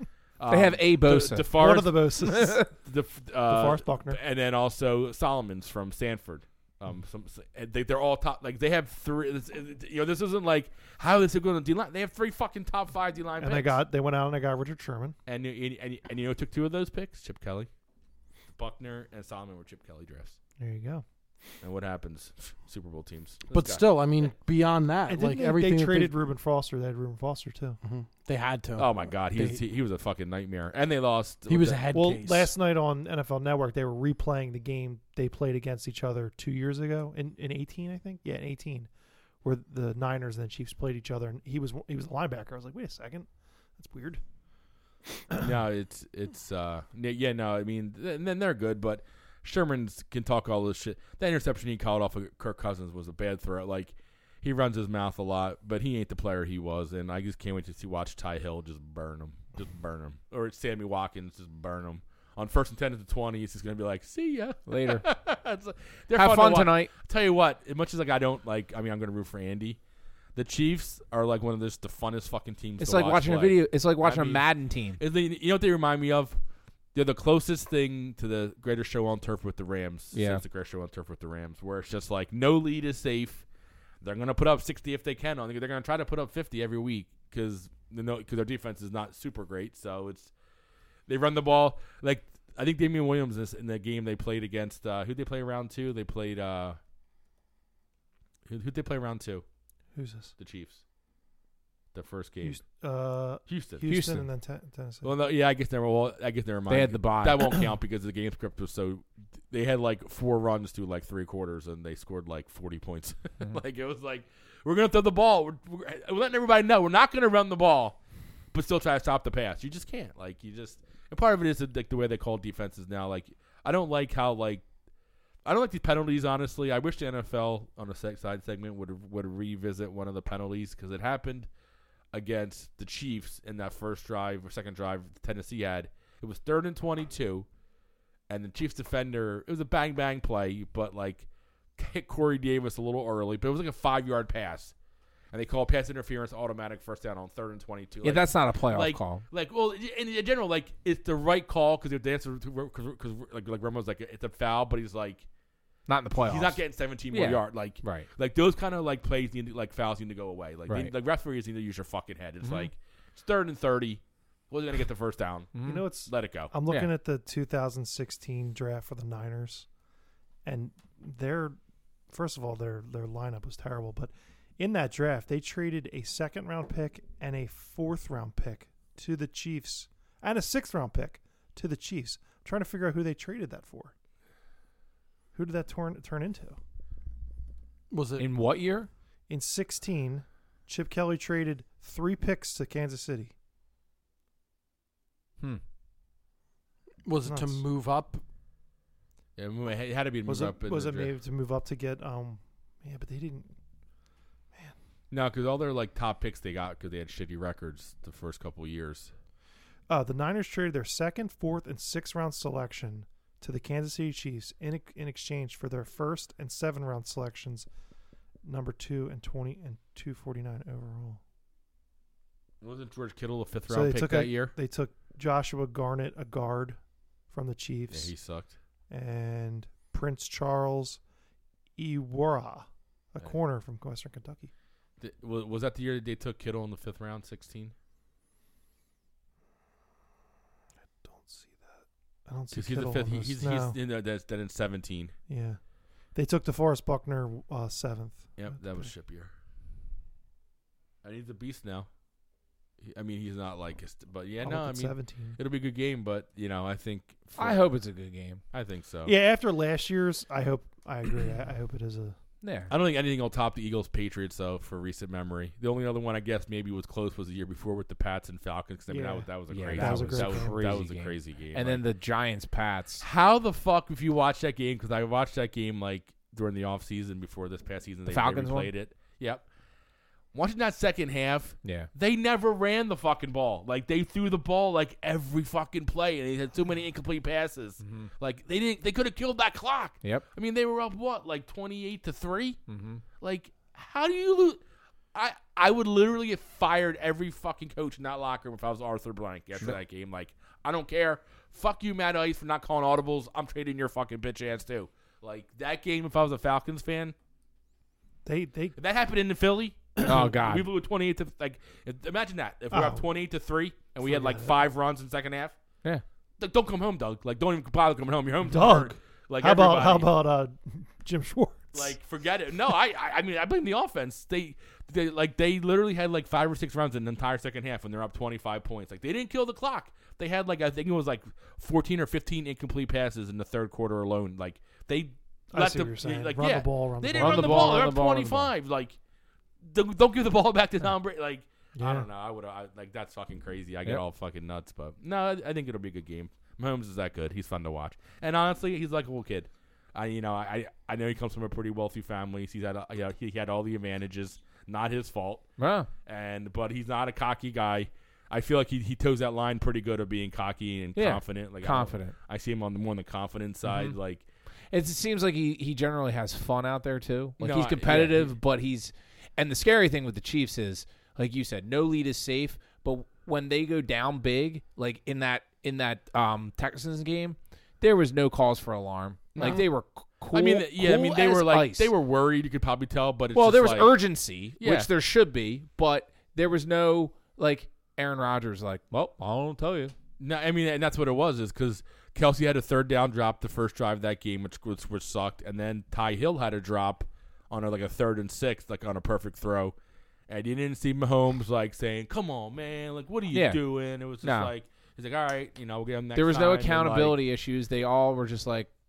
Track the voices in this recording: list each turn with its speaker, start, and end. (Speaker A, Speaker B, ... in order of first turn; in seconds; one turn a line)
Speaker A: 0.4-2.1
Speaker B: 0.5-2.7
Speaker C: 1.5-2.7
Speaker A: 2.7-13.8
Speaker C: 3.5-4.2
Speaker C: 13.4-15.2
Speaker A: 15.3-17.7
Speaker A: 18.6-20.4
Speaker C: 20.6-21.0
Speaker A: 21.6-23.9
Speaker D: 23.5-26.2
Speaker C: 25.1-27.8
Speaker D: 27.8-29.6
Speaker A: 28.8-31.9
Speaker D: 31.5-32.5
Speaker C: 31.9-38.9
Speaker C: 39.4-44.2
Speaker A: 45.4-69.8
Speaker B: 64.7-65.1
Speaker B: 66.2-66.9
Speaker A: 70.4-74.5
Speaker B: 72.8-75.0
Speaker A: 75.0-76.4
Speaker A: 76.9-83.5
Speaker B: 80.1-80.4
Speaker A: 84.0-90.3
Speaker A: 91.1-96.8
Speaker A: 98.5-99.4
Speaker C: 100.0-100.3
Speaker A: 100.4-100.8
Speaker A: 101.9-102.6
Speaker C: 102.4-105.1
Speaker A: 103.5-103.8
Speaker B: 103.9-104.2
Speaker A: 105.0-118.0
Speaker B: 106.7-107.7
Speaker A: 118.5-124.6
Speaker A: 125.5-131.5
Speaker A: 132.1-137.5
Speaker A: 138.3-141.3
Speaker A: 141.8-144.7
Speaker A: 145.3-155.2
Speaker B: 148.0-149.2
Speaker B: 155.9-158.1
Speaker A: 156.2-166.5
Speaker B: 160.7-160.9
Speaker B: 162.4-162.7
Speaker B: 165.6-165.9
Speaker C: 165.6-169.7
Speaker C: 170.4-171.6
Speaker C: 172.1-183.9
Speaker C: 185.3-186.6
Speaker D: 187.9-188.3
Speaker B: 188.2-188.9
Speaker C: 189.3-193.3
Speaker D: 197.1-198.2
Speaker C: 197.2-197.6
Speaker A: 199.4-201.1
Speaker C: 200.3-203.5
Speaker A: 205.1-209.1
Speaker C: 209.9-217.7
Speaker C: 218.4-221.2
Speaker A: 222.6-224.5
Speaker C: 223.7-226.8
Speaker C: 227.3-228.1
Speaker A: 227.9-228.5
Speaker C: 228.9-231.0
Speaker C: 231.8-234.5
Speaker A: 235.0-237.7
Speaker C: 241.0-243.8
Speaker A: 242.5-245.2
Speaker C: 245.3-245.6
Speaker C: 246.2-248.9
Speaker A: 248.4-249.3
Speaker A: 251.0-251.9
Speaker A: 252.8-257.6
Speaker C: 254.4-255.4
Speaker B: 257.4-258.4
Speaker A: 258.5-259.1
Speaker C: 259.1-262.2
Speaker B: 262.4-262.7
Speaker A: 262.7-271.8
Speaker C: 268.9-270.6
Speaker B: 269.5-273.1
Speaker A: 273.0-279.4
Speaker B: 278.1-278.7
Speaker A: 280.3-292.6
Speaker B: 281.6-281.9
Speaker B: 287.8-288.1
Speaker B: 292.7-293.0
Speaker A: 293.2-294.6
Speaker A: 295.1-307.1
Speaker C: 308.2-308.8
Speaker A: 308.8-315.6
Speaker B: 310.0-310.7
Speaker C: 312.7-313.0
Speaker C: 314.0-314.6
Speaker A: 316.4-320.1
Speaker C: 318.4-322.0
Speaker A: 321.7-339.0
Speaker C: 335.5-338.0
Speaker B: 337.1-338.5
Speaker A: 339.6-355.5
Speaker C: 341.8-342.1
Speaker B: 355.6-355.9
Speaker A: 356.1-364.2
Speaker B: 360.9-362.1
Speaker B: 363.7-363.9
Speaker B: 364.7-381.9
Speaker A: 367.4-368.4
Speaker A: 379.4-379.7
Speaker A: 380.3-384.9
Speaker B: 383.3-389.9
Speaker A: 390.2-399.8
Speaker A: 400.3-407.2
Speaker B: 403.3-403.6
Speaker B: 404.2-404.5
Speaker B: 406.1-408.7